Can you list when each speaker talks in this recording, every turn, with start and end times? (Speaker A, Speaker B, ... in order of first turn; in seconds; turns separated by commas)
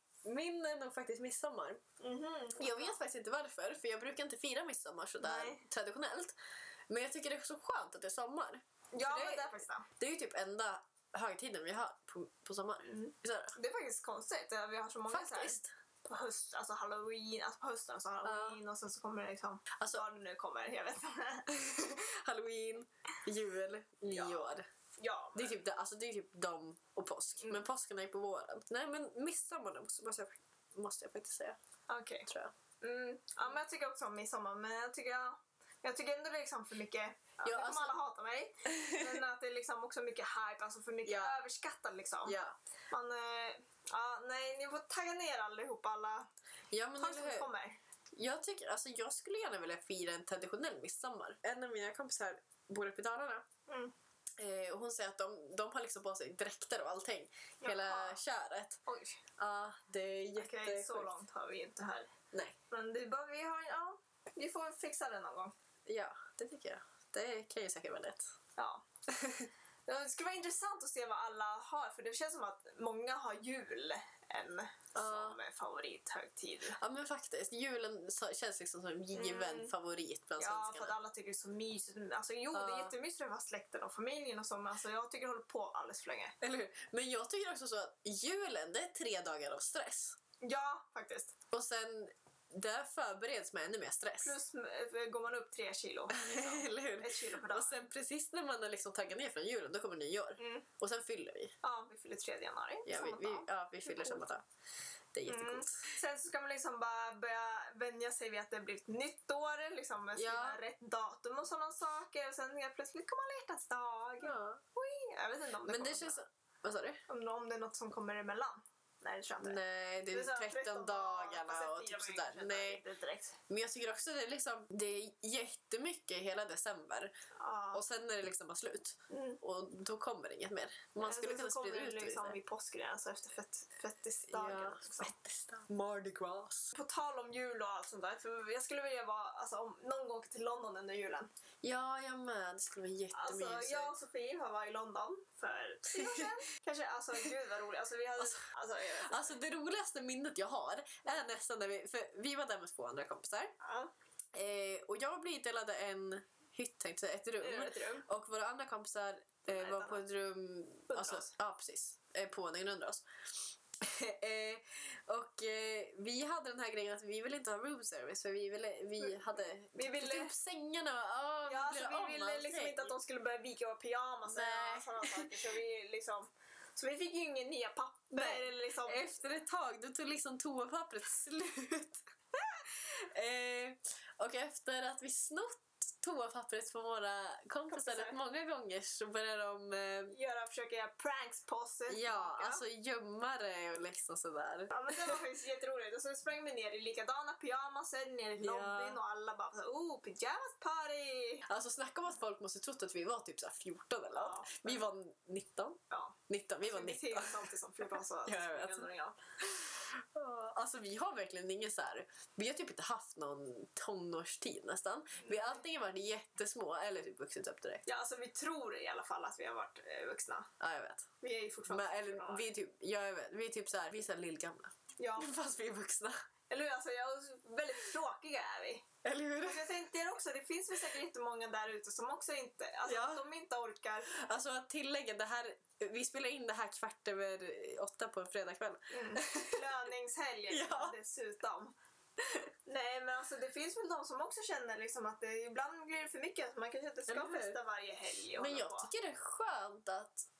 Speaker A: 0.2-1.8, Speaker B: 2.0-3.0, Speaker A: 2.6-6.4, Speaker B: 5.2-5.6, Speaker A: 6.9-13.5, Speaker B: 8.9-9.9, Speaker B: 12.8-21.5, Speaker A: 15.1-15.7, Speaker A: 18.2-18.6, Speaker A: 19.8-20.0, Speaker A: 21.5-24.6, Speaker B: 24.1-25.6, Speaker A: 25.3-31.6, Speaker B: 31.9-32.3, Speaker A: 32.3-32.5, Speaker B: 32.8-42.4, Speaker A: 37.4-37.9, Speaker A: 38.7-39.2, Speaker A: 41.0-41.4, Speaker A: 42.2-42.5, Speaker B: 42.9-46.3, Speaker A: 46.7-47.5, Speaker B: 47.0-47.8, Speaker A: 48.1-53.4, Speaker B: 53.7-53.9, Speaker A: 54.4-58.8, Speaker B: 57.6-58.2, Speaker B: 58.9-59.2, Speaker A: 59.4-61.1, Speaker B: 60.3-62.1, Speaker B: 62.7-65.5, Speaker A: 65.9-68.3, Speaker B: 68.6-68.8, Speaker A: 69.1-69.5, Speaker B: 69.9-76.8, Speaker A: 74.9-75.4, Speaker A: 76.8-81.0, Speaker B: 79.1-79.7, Speaker B: 80.4-86.3, Speaker A: 82.5-82.9, Speaker A: 86.4-90.2, Speaker B: 90.4-91.3, Speaker A: 91.5-94.4, Speaker B: 94.2-97.8, Speaker A: 96.1-101.5, Speaker B: 100.4-100.7, Speaker B: 101.6-104.3, Speaker A: 102.9-104.4, Speaker A: 105.1-105.9, Speaker B: 105.3-116.2, Speaker A: 110.2-110.6, Speaker A: 114.2-114.6, Speaker A: 115.6-117.0, Speaker B: 117.1-119.6, Speaker A: 119.4-122.8, Speaker B: 120.1-123.4, Speaker A: 123.5-127.1, Speaker B: 127.4-127.8, Speaker A: 127.7-132.4, Speaker B: 129.1-129.4, Speaker B: 131.0-135.1, Speaker A: 134.3-136.7, Speaker B: 136.7-141.3, Speaker A: 141.6-143.9, Speaker B: 143.1-149.4, Speaker A: 145.9-146.3, Speaker A: 149.1-153.5, Speaker B: 153.6-153.9, Speaker A: 154.3-172.9, Speaker B: 157.4-158.1, Speaker B: 159.5-160.0, Speaker B: 160.9-161.3, Speaker B: 169.8-170.3, Speaker B: 171.4-179.1, Speaker A: 174.3-175.3, Speaker A: 178.1-182.0, Speaker A: 182.6-190.1, Speaker B: 187.7-188.2, Speaker B: 190.1-192.6, Speaker A: 191.9-195.2, Speaker B: 194.7-201.4, Speaker A: 198.4-199.0, Speaker A: 201.5-207.5, Speaker B: 204.1-204.9, Speaker B: 205.9-209.2, Speaker A: 208.2-208.9, Speaker A: 209.4-217.8, Speaker B: 215.2-215.6, Speaker B: 217.9-220.5, Speaker A: 220.6-221.1, Speaker B: 221.2-222.4, Speaker A: 221.7-226.1, Speaker B: 225.0-225.3, Speaker B: 226.5-228.9, Speaker A: 229.0-229.7, Speaker B: 229.4-234.2, Speaker A: 232.9-233.3, Speaker A: 234.1-239.6, Speaker B: 238.9-241.7, Speaker A: 240.5-240.9, Speaker B: 242.7-248.9, Speaker A: 247.1-247.6, Speaker A: 248.4-250.3